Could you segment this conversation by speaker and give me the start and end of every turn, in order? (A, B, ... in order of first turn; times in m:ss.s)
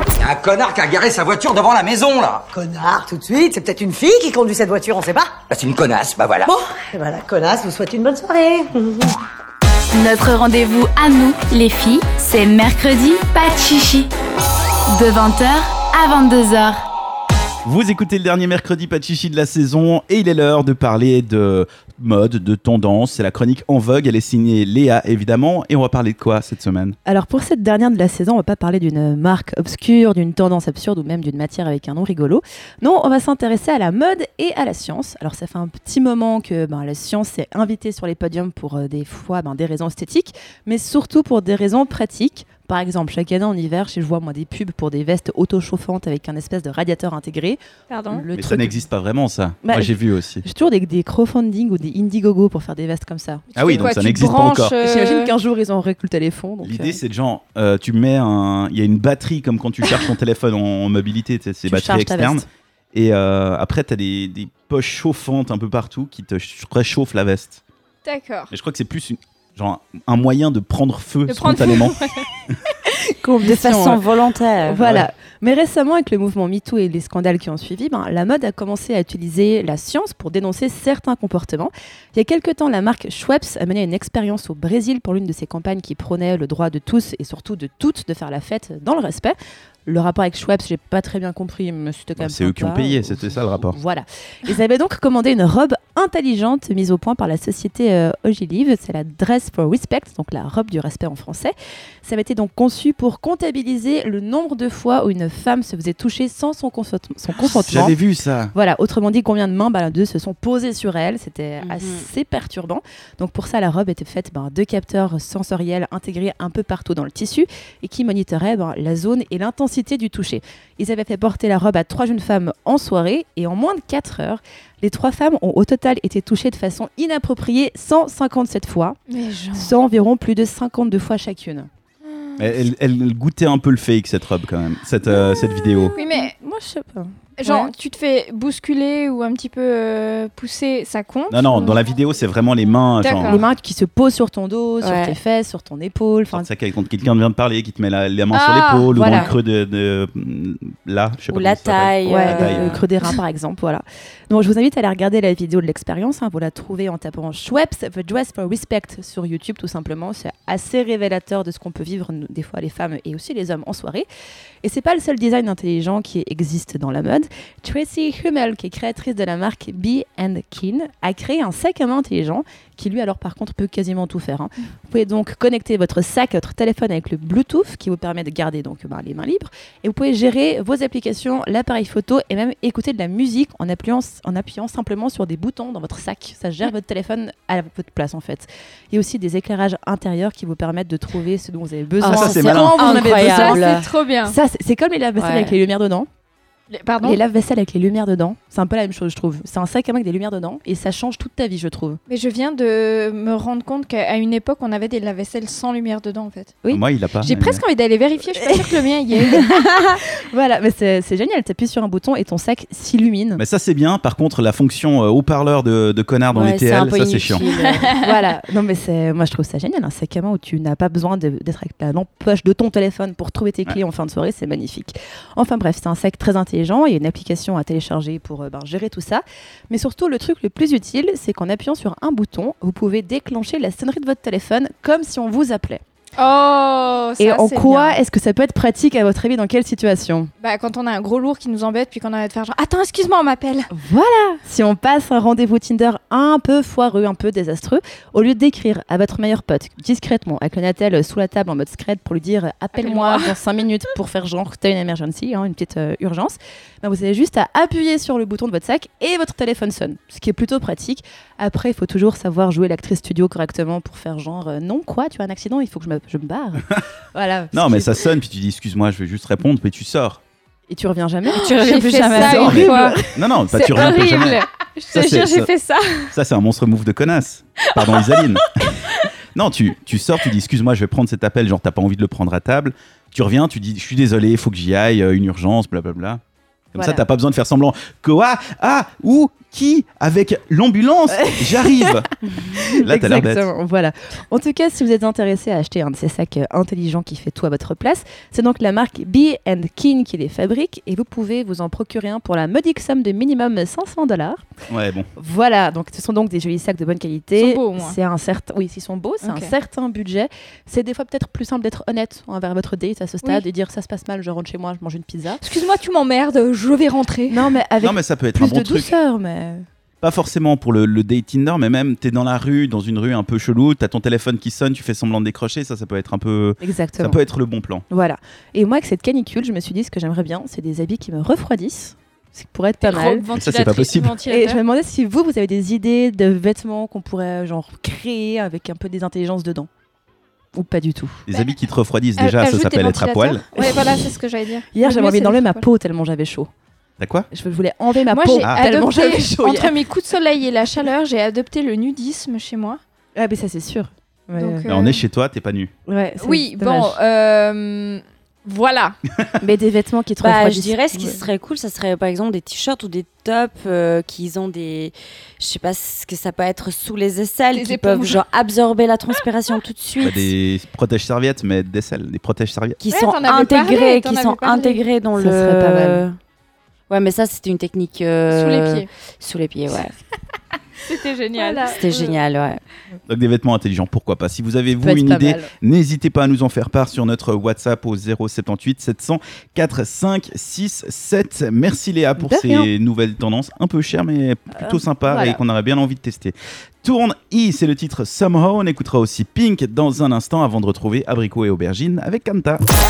0:00.2-0:02.4 A
0:02.5-0:05.4 B
0:05.5-0:06.5 A
0:06.5-0:09.2 B
0:10.0-0:14.1 C
0:14.9-0:16.8 C
0:17.6-0:27.0 D
0:27.0-0:48.8 E
0:47.9-0:48.2 F
0:48.4-0:50.4 D
0:49.6-0:53.9 E
0:53.5-0:55.3 F
0:53.6-0:54.8 D
0:54.8-0:57.0 E
0:56.6-1:07.6 D
1:01.7-1:02.4 E
1:08.0-1:08.5 F
1:08.5-1:12.0 D
1:11.3-1:12.3 F
1:13.1-1:14.1 E
1:13.4-1:14.8 G
1:14.7-1:48.0 E
1:14.8-1:15.1 D
1:32.2-1:33.8 D
1:47.4-1:48.5 D
1:48.5-2:09.0 E
1:51.6-1:52.1 G
2:09.1-2:09.7 F
2:09.5-2:11.7 E
2:12.4-2:15.9 D
2:16.0-2:16.3 F
2:16.0-2:17.7 E
2:17.4-2:21.8 F
2:21.3-2:23.4 D
2:23.0-2:23.4 F
2:23.2-2:26.5 E
2:24.8-2:25.2 G
2:26.3-2:32.8 D
2:28.3-2:29.3 F
2:28.9-2:29.3 E
2:31.3-2:32.8 G
2:32.1-2:44.1 E
2:44.6-3:13.7 E
3:12.0-3:13.8 G
3:12.1-3:12.8 D
3:12.8-3:14.4 F
3:14.2-3:16.1 E
3:15.2-3:15.6 G
3:16.7-3:17.2 F
3:17.0-3:22.0 E
3:22.1-3:26.6 F
3:26.7-3:27.6 D
3:27.2-3:30.0 F
3:29.2-3:33.4 E
3:33.4-3:37.4 D
3:36.3-3:37.9 G
3:37.8-3:55.8 E
3:56.2-3:58.0 F
3:57.2-4:00.3 E
4:00.4-4:03.7 F
4:03.7-4:28.1 E
4:12.8-4:13.4 F
4:27.5-4:30.2 D
4:30.7-4:34.0 E
4:31.4-4:32.7 G
4:31.5-4:36.1 F
4:32.5-4:35.5 D
4:36.1-4:38.8 D
4:37.7-4:39.1 F
4:39.4-4:46.2 D
4:46.7-4:52.1 D
4:46.8-4:47.0 E
4:51.1-5:04.4 E
4:52.6-4:53.5 D
5:04.7-5:05.1 D
5:05.2-5:15.4 E
5:07.4-5:08.0 F
5:09.2-5:09.5 F
5:15.4-5:17.5 F
5:17.3-5:19.6 E
5:17.8-5:19.0 D
5:20.0-5:27.8 D
5:26.6-5:27.2 E
5:27.9-5:33.3 E
5:32.8-5:34.6 F
5:33.4-5:34.2 D
5:34.3-5:39.7 E
5:40.5-5:41.2 E
5:41.3-5:43.5 D
5:42.2-5:45.6 F
5:43.6-5:44.0 E
5:44.7-5:46.5 E
5:47.0-5:47.3 D
5:47.3-5:49.7 E
5:48.1-5:52.8 F
5:53.2-5:54.7 E
5:54.4-5:55.0 F
5:54.7-5:55.7 D
5:55.9-5:57.0 E
5:56.2-5:59.0 F
5:59.4-6:01.2 E
6:00.2-6:10.3 G
6:07.5-6:08.2 F
6:10.0-6:12.8 D
6:12.8-6:16.2 G
6:12.9-6:14.8 F
6:15.2-6:16.0 E
6:16.9-6:19.9 G
6:18.3-6:18.9 F
6:20.8-6:22.2 F
6:21.4-6:21.7 E
6:21.7-6:22.6 G
6:23.1-6:42.6 D
6:24.8-6:25.5 E
6:32.2-6:32.7 E
6:34.6-6:35.4 E